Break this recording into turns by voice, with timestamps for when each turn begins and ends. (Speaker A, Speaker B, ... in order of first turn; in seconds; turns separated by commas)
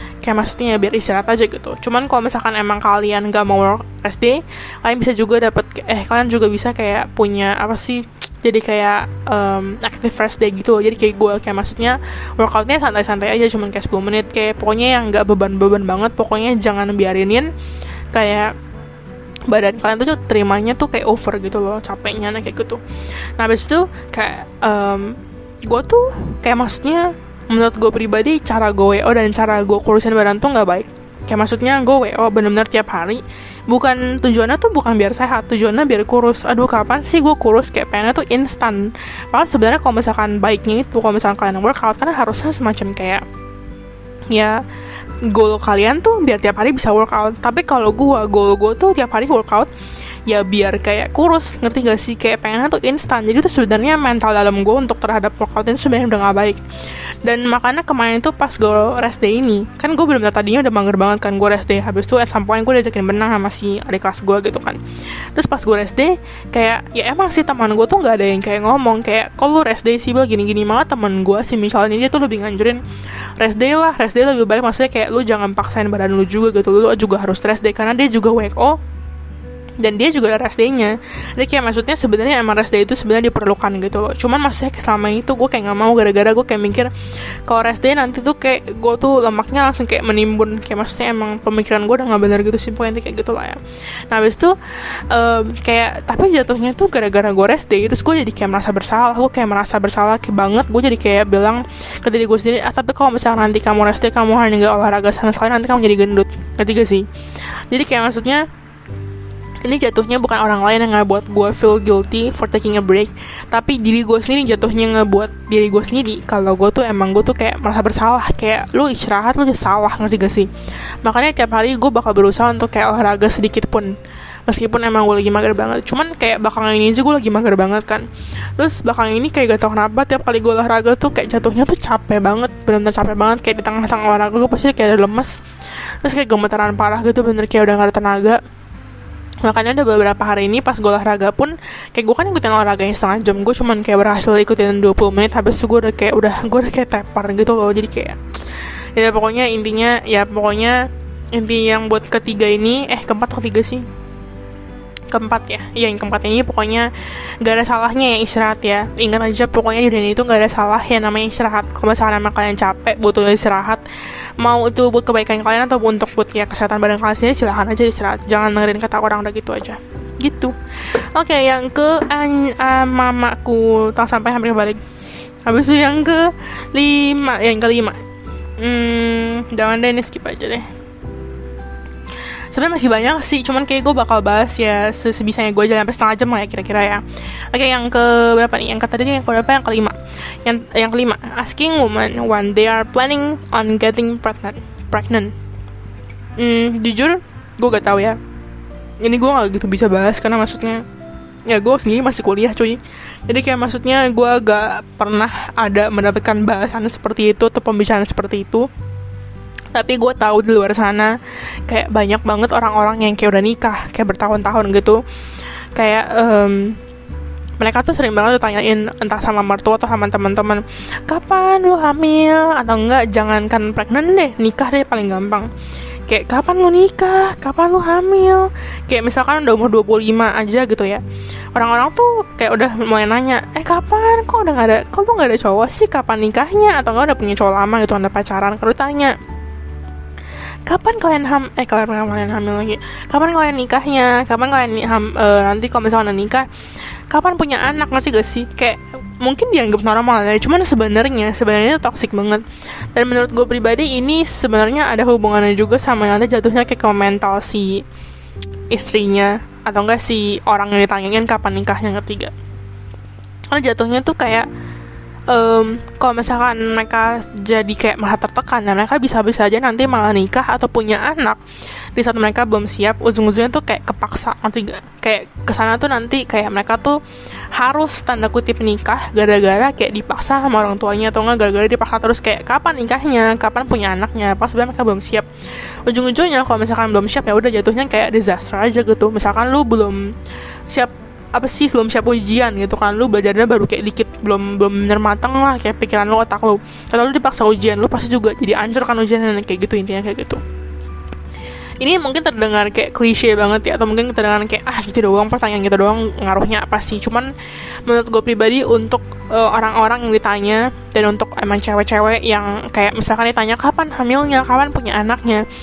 Speaker A: 0.2-17.5, Speaker A: 18.1-18.6, Speaker A: 19.5-22.8, Speaker A: 23.4-43.2, Speaker A: 44.3-44.6, Speaker A: 45.3-49.7, Speaker A: 50.3-56.6, Speaker A: 57.2-64.8, Speaker A: 65.3-72.8, Speaker A: 73.4-78.8, Speaker A: 79.8-86.9, Speaker A: 87.5-107.1, Speaker A: 107.7-108.5, Speaker A: 109.6-120.5, Speaker A: 121.0-124.0, Speaker A: 124.5-135.4, Speaker A: 136.0-138.4, Speaker A: 139.4-148.2, Speaker A: 148.9-153.8, Speaker A: 155.1-156.9, Speaker A: 157.4-163.8, Speaker A: 164.4-174.8, Speaker A: 175.4-178.0, Speaker A: 178.6-180.7, Speaker A: 182.5-195.3, Speaker A: 196.4-198.2, Speaker A: 199.0-200.8, Speaker A: 201.5-208.7, Speaker A: 209.7-215.0, Speaker A: 215.8-216.8, Speaker A: 217.6-225.5, Speaker A: 226.1-231.0, Speaker A: 231.5-239.2, Speaker A: 240.7-246.5, Speaker A: 247.1-257.9, Speaker A: 258.7-262.3, Speaker A: 263.5-264.5, Speaker A: 265.3-271.4, Speaker A: 271.9-277.0, Speaker A: 277.5-285.3, Speaker A: 285.9-290.1, Speaker A: 290.7-300.4, Speaker A: 301.8-307.3, Speaker A: 307.9-315.5